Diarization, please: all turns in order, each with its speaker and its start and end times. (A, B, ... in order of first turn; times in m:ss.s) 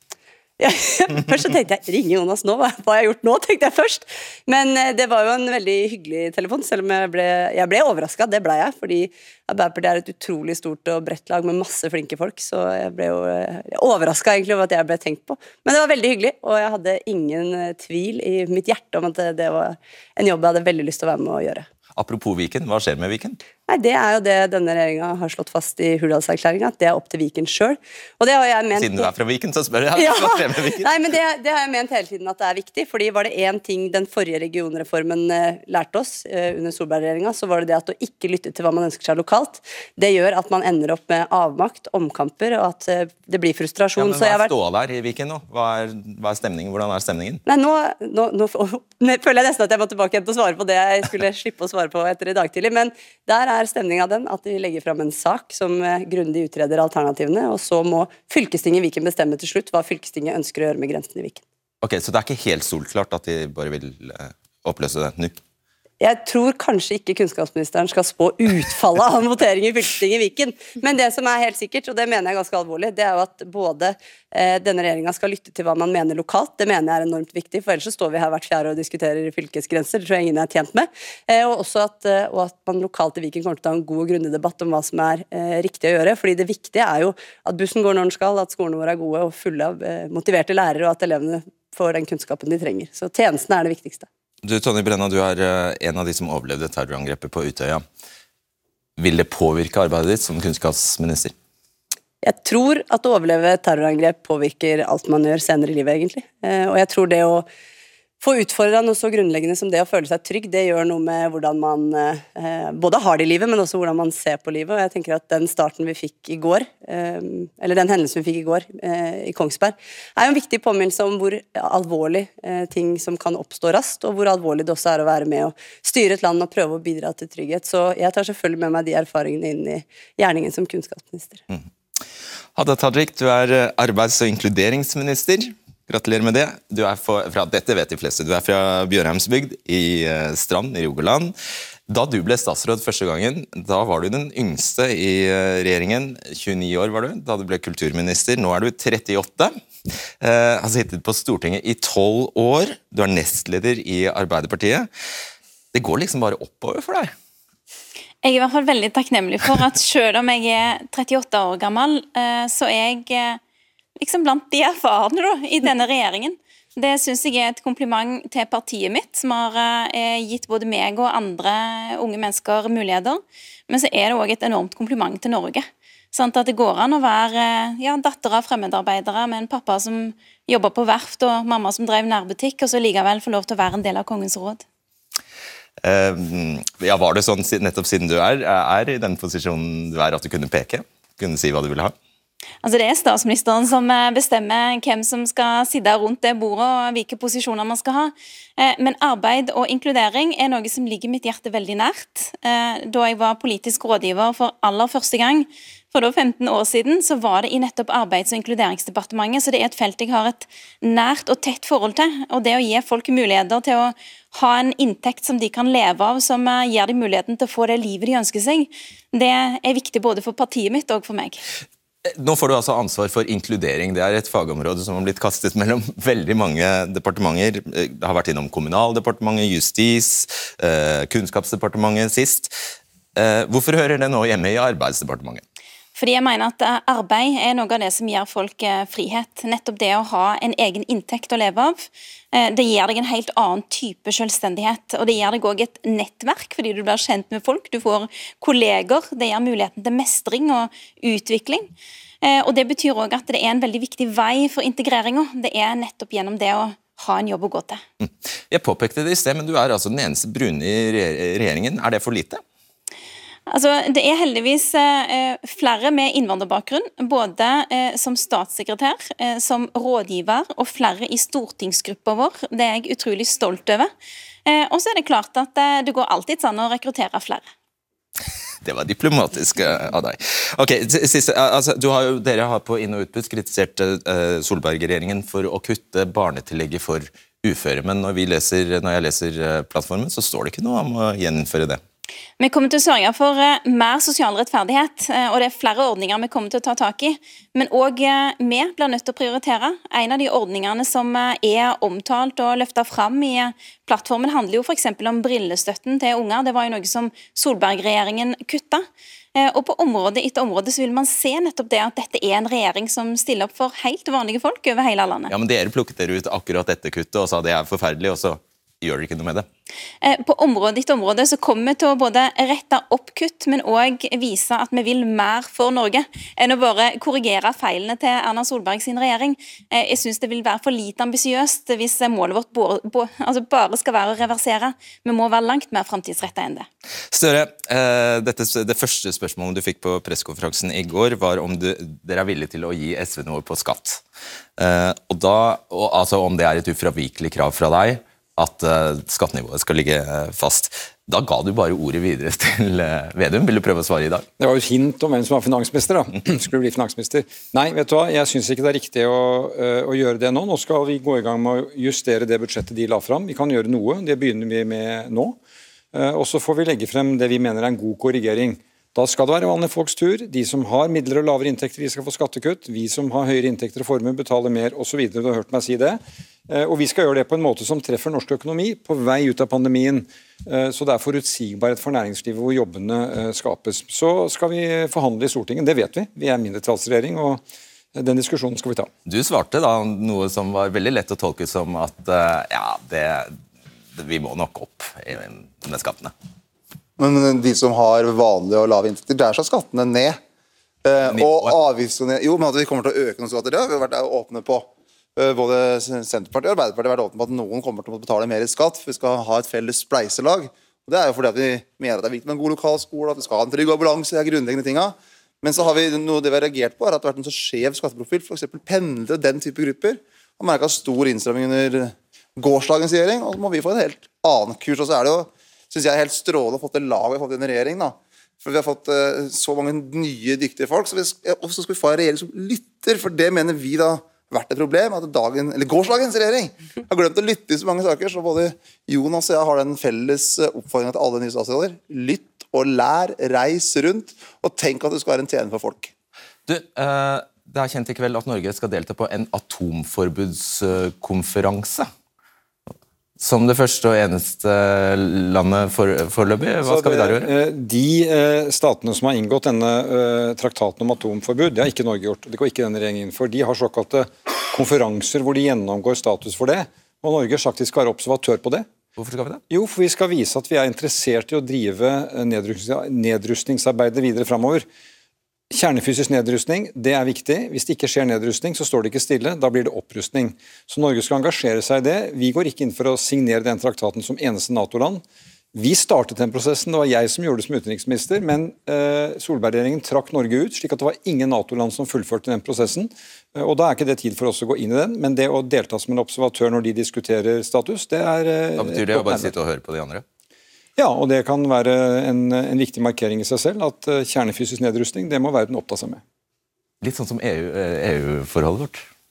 0:00.6-0:21.7 A
0:21.9-0:23.4 B
0:23.7-0:29.1 A
0:28.8-0:30.9 B
0:30.0-0:44.5 A
0:44.0-0:47.4 B
0:47.5-1:01.4 A
1:01.8-1:05.4 B
1:06.0-1:34.1 A
1:34.4-1:37.8 B
1:39.0-1:41.3 B
1:42.2-1:47.5 A
1:48.2-2:11.4 A
2:12.6-2:21.3 B
2:21.9-2:29.6 B
2:30.2-2:34.9 B
2:35.7-2:37.1 B
2:38.2-2:43.4 C
2:44.0-3:04.6 C
3:05.8-3:11.9 B
3:12.6-3:41.4 C
3:42.1-3:52.6 B
3:53.2-3:55.4 B
3:56.0-4:11.7 C
4:12.2-4:17.8 C
4:18.0-4:22.4 B
4:23.5-4:33.9 C
4:34.5-4:37.5 C
4:38.6-4:51.8 B
4:52.4-5:15.3 C
5:15.3-5:19.5 B
5:20.0-5:36.7 C
5:37.1-5:44.0 B
5:44.6-5:54.3 B
5:54.4-6:05.4 D
6:05.9-6:27.4 D
6:28.0-6:28.9 D
6:29.1-6:33.4 B
6:34.0-6:36.1 B
6:37.0-6:40.2 E
6:40.8-7:25.9 E
6:41.1-6:41.6 B
7:26.5-7:31.9 B
7:33.2-7:37.3 B
7:36.6-7:48.7 D
7:49.0-7:49.4 B
7:49.5-7:54.7 D
7:55.5-8:05.0 D
8:05.5-8:19.3 D
8:18.6-8:20.0 B
8:20.8-8:26.0 D
8:26.8-8:28.9 B